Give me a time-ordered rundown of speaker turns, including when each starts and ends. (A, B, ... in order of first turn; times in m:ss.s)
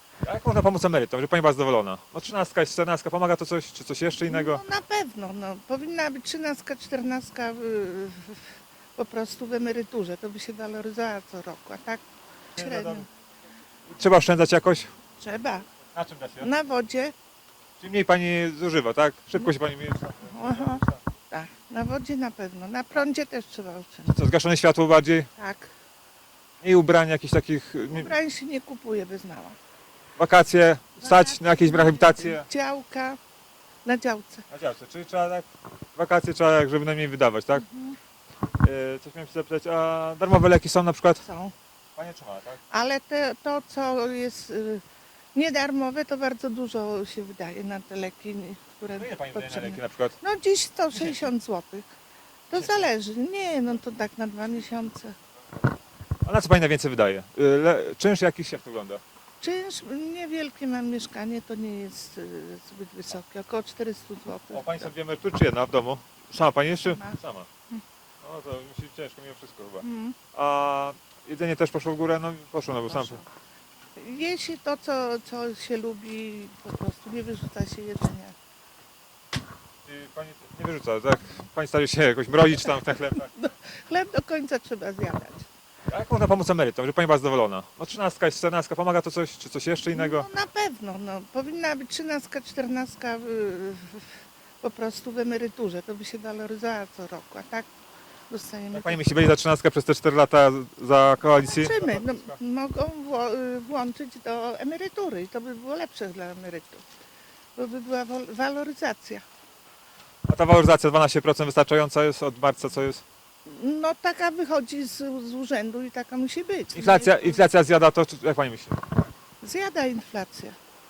0:00.2-0:04.6 A
0:04.3-0:12.0 B
0:12.6-0:13.1 B
0:12.6-0:13.1 A
0:13.9-0:14.9 A
0:15.2-0:15.6 B
0:15.9-0:16.5 A
0:16.4-0:17.1 B
0:17.8-0:21.0 A
0:20.3-0:24.2 B
0:24.1-0:25.3 A
0:25.4-0:25.7 B
0:26.6-0:28.2 A
0:27.9-0:29.6 B
0:30.2-0:32.5 A
0:31.0-0:33.2 B
0:33.8-0:34.4 B
0:34.5-0:37.6 A
0:37.5-0:38.0 B
0:38.6-0:41.2 A
0:41.2-0:41.5 B
0:42.0-0:42.6 A
0:42.7-0:44.8 B
0:45.3-0:51.9 B
0:48.9-0:50.2 A
0:50.9-0:51.3 A
0:52.5-0:55.2 B
0:52.5-0:52.9 A
0:56.2-0:59.0 A
0:59.4-1:04.9 B
1:04.5-1:07.5 A
1:06.8-1:07.2 B
1:08.2-1:13.2 A
1:09.8-1:10.2 B
1:12.9-1:13.2 B
1:14.0-1:18.3 B
1:19.9-1:23.3 A
1:22.6-1:25.5 B
1:25.9-1:30.3 A
1:29.9-1:37.7 B
1:38.3-1:39.0 B
1:38.7-1:42.4 A
1:41.4-1:46.8 B
1:47.6-1:49.2 B
1:50.3-1:53.0 A
1:53.4-1:57.4 B
1:56.7-1:58.8 A
1:59.4-2:00.6 B